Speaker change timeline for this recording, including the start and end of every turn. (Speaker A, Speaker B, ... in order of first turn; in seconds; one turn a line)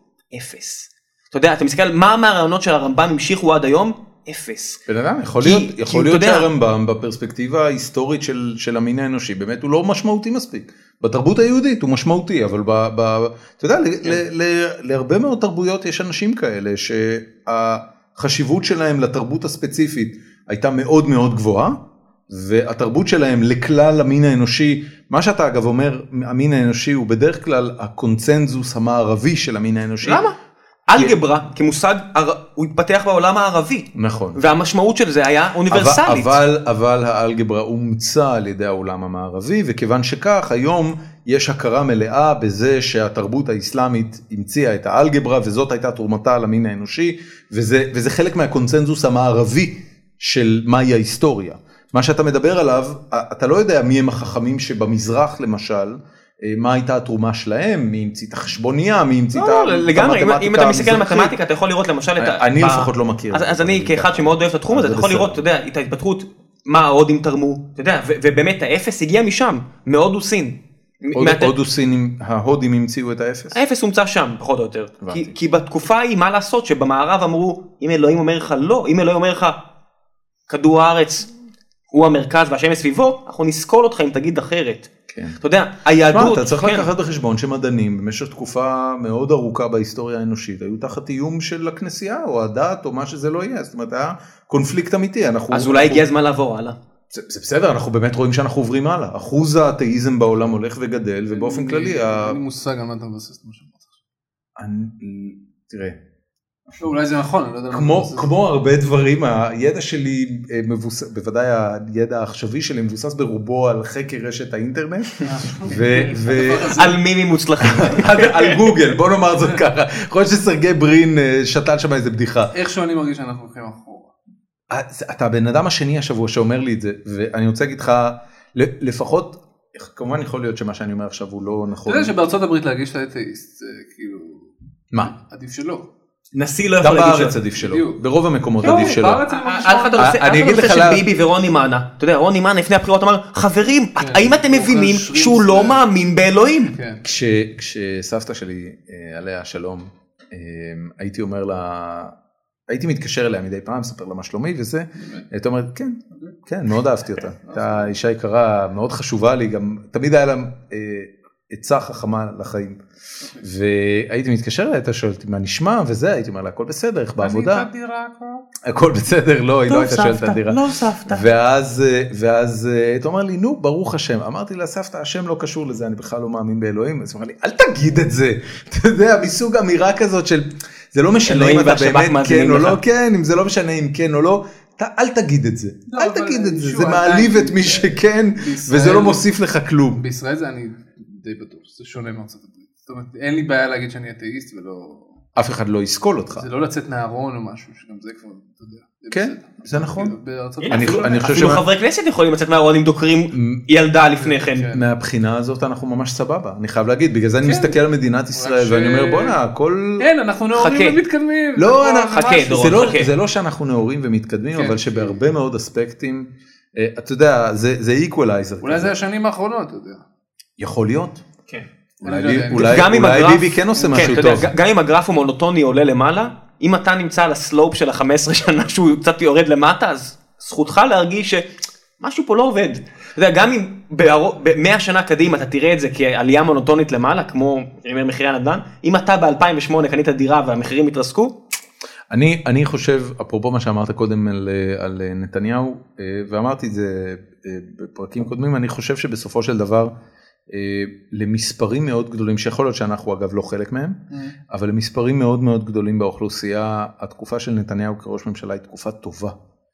Speaker A: 0.3-4.8
Speaker B: 4.9-21.8
Speaker A: 5.4-6.5
Speaker B: 22.3-30.2
Speaker A: 30.0-30.4
Speaker A: 30.9-36.4
Speaker B: 34.0-34.4
Speaker B: 35.7-61.4
Speaker A: 59.4-71.5
Speaker B: 62.2-65.5
Speaker B: 71.2-73.6
Speaker A: 73.5-79.6
Speaker B: 75.0-75.4
Speaker A: 80.5-81.3
Speaker A: 81.9-86.9
Speaker B: 85.1-85.4
Speaker B: 86.1-96.0
Speaker A: 95.5-96.8
Speaker B: 97.1-102.4
Speaker C: 101.3-104.0
Speaker B: 104.6-106.0
Speaker C: 106.8-108.3
Speaker B: 107.7-116.9
Speaker C: 115.2-117.0
Speaker A: 116.4-118.7
Speaker B: 117.6-122.5
Speaker C: 122.5-124.1
Speaker B: 124.7-132.2
Speaker C: 131.9-135.9
Speaker A: 136.3-137.4
Speaker B: 136.8-139.2
Speaker C: 137.6-138.0
Speaker C: 138.6-140.2
Speaker A: 138.6-146.8
Speaker B: 140.0-141.1
Speaker C: 144.0-145.8
Speaker C: 146.7-147.0
Speaker B: 147.0-152.2
Speaker B: 152.7-162.8
Speaker C: 155.0-155.2
Speaker C: 157.4-157.9
Speaker B: 163.3-167.7
Speaker C: 167.2-168.4
Speaker B: 168.6-190.0
Speaker A: 169.7-171.3
Speaker A: 181.3-182.8
Speaker C: 185.9-189.3
Speaker C: 189.9-195.2
Speaker B: 195.4-196.5
Speaker C: 196.4-201.6
Speaker B: 199.1-200.2
Speaker A: 200.6-204.7
Speaker B: 200.7-201.7
Speaker B: 203.3-203.6
Speaker C: 204.2-204.8
Speaker B: 204.7-210.1
Speaker C: 207.4-207.8
Speaker C: 208.3-209.4
Speaker C: 210.0-212.9
Speaker A: 210.6-211.0
Speaker B: 211.6-218.9
Speaker A: 212.1-213.1
Speaker C: 214.5-215.2
Speaker C: 218.6-220.1
Speaker B: 220.6-221.2
Speaker C: 222.0-222.9
Speaker B: 222.0-224.5
Speaker A: 222.5-231.5
Speaker C: 223.7-224.4
Speaker A: 232.0-241.3
Speaker B: 242.1-249.9
Speaker B: 250.5-259.4
Speaker C: 254.1-254.4